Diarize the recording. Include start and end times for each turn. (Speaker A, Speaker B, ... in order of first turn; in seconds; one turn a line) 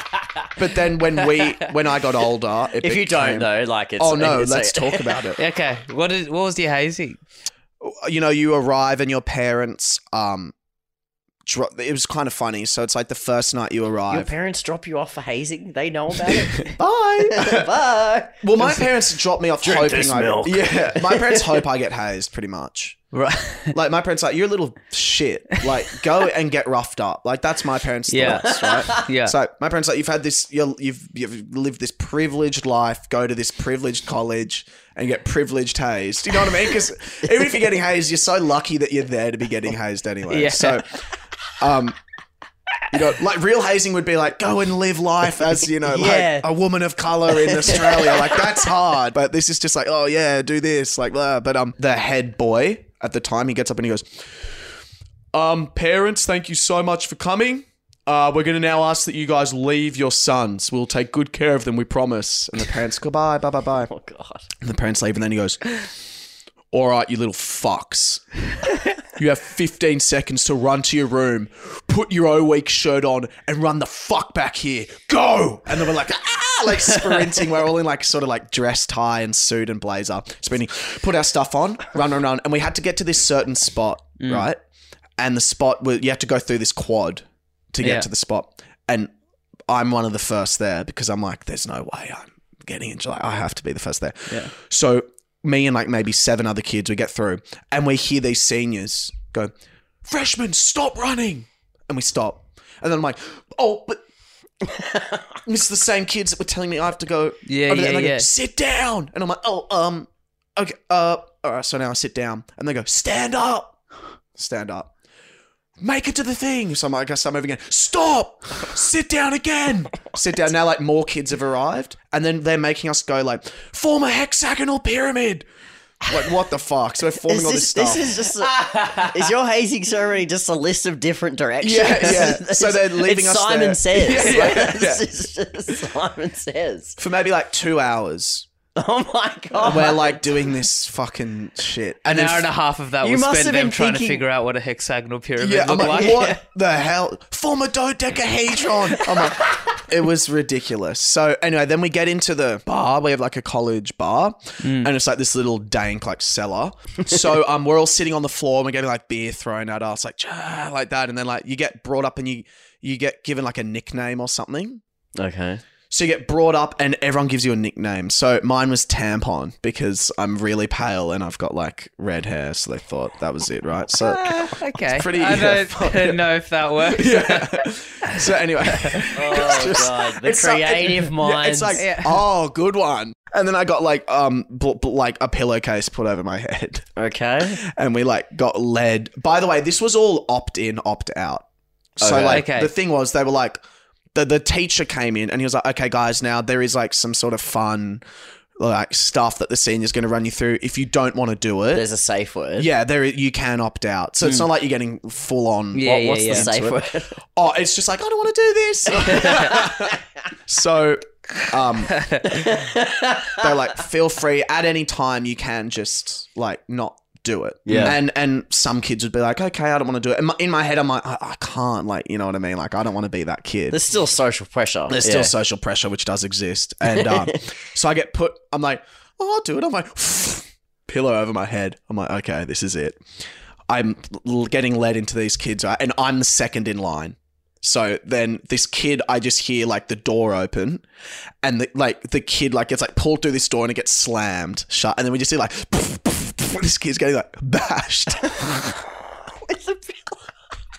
Speaker A: 0.6-5.4
Speaker B: 2.8-5.2
Speaker C: 5.4-7.2
Speaker A: 7.8-10.5
Speaker A: 11.4-14.3
Speaker B: 14.1-16.7
Speaker A: 16.3-17.7
Speaker B: 17.2-18.7
Speaker A: 18.4-23.0
Speaker B: 19.6-21.6
Speaker C: 23.1-23.7
Speaker A: 23.7-41.0
Speaker C: 28.1-29.4
Speaker B: 28.3-29.1
Speaker C: 40.3-40.8
Speaker A: 41.6-42.0
Speaker A: 42.9-54.5
Speaker B: 45.9-46.5
Speaker B: 47.3-48.6
Speaker A: 55.3-63.9
Speaker B: 63.9-64.5
Speaker A: 64.6-65.6
Speaker A: 66.7-68.2
Speaker A: 69.2-84.6
Speaker C: 84.2-84.5
Speaker A: 85.2-89.1
Speaker C: 87.8-88.1
Speaker A: 89.7-99.5
Speaker A: 100.0-104.0
Speaker B: 104.7-105.2
Speaker A: 105.5-113.8
Speaker C: 107.5-108.3
Speaker A: 114.3-114.9
Speaker A: 115.8-125.5
Speaker A: 126.1-128.1
Speaker B: 127.2-137.0
Speaker C: 128.5-129.3
Speaker A: 131.6-135.1
Speaker A: 137.0-138.5
Speaker B: 138.8-140.2
Speaker A: 139.6-142.5
Speaker C: 142.1-146.3
Speaker B: 143.0-144.2
Speaker A: 145.4-164.8
Speaker B: 145.8-146.4
Speaker B: 149.0-149.6
Speaker C: 154.6-154.9
Speaker B: 165.2-165.6
Speaker A: 165.9-176.2
Speaker C: 174.2-179.4
Speaker A: 176.8-186.9
Speaker B: 179.1-181.8
Speaker C: 181.7-182.2
Speaker B: 187.0-187.6
Speaker A: 187.4-191.4
Speaker A: 192.0-193.6
Speaker B: 192.0-192.5
Speaker C: 192.3-192.7
Speaker A: 194.2-198.0
Speaker A: 198.6-201.8
Speaker B: 201.7-202.7
Speaker A: 202.6-212.0
Speaker C: 205.8-206.5
Speaker B: 205.8-207.2
Speaker B: 209.1-209.9
Speaker C: 211.9-212.5
Speaker B: 212.3-213.5
Speaker A: 213.3-223.8
Speaker B: 217.7-218.0
Speaker B: 223.7-225.3
Speaker A: 224.9-233.0
Speaker B: 226.9-227.4
Speaker A: 233.7-240.8
Speaker A: 241.4-248.7
Speaker B: 248.4-250.2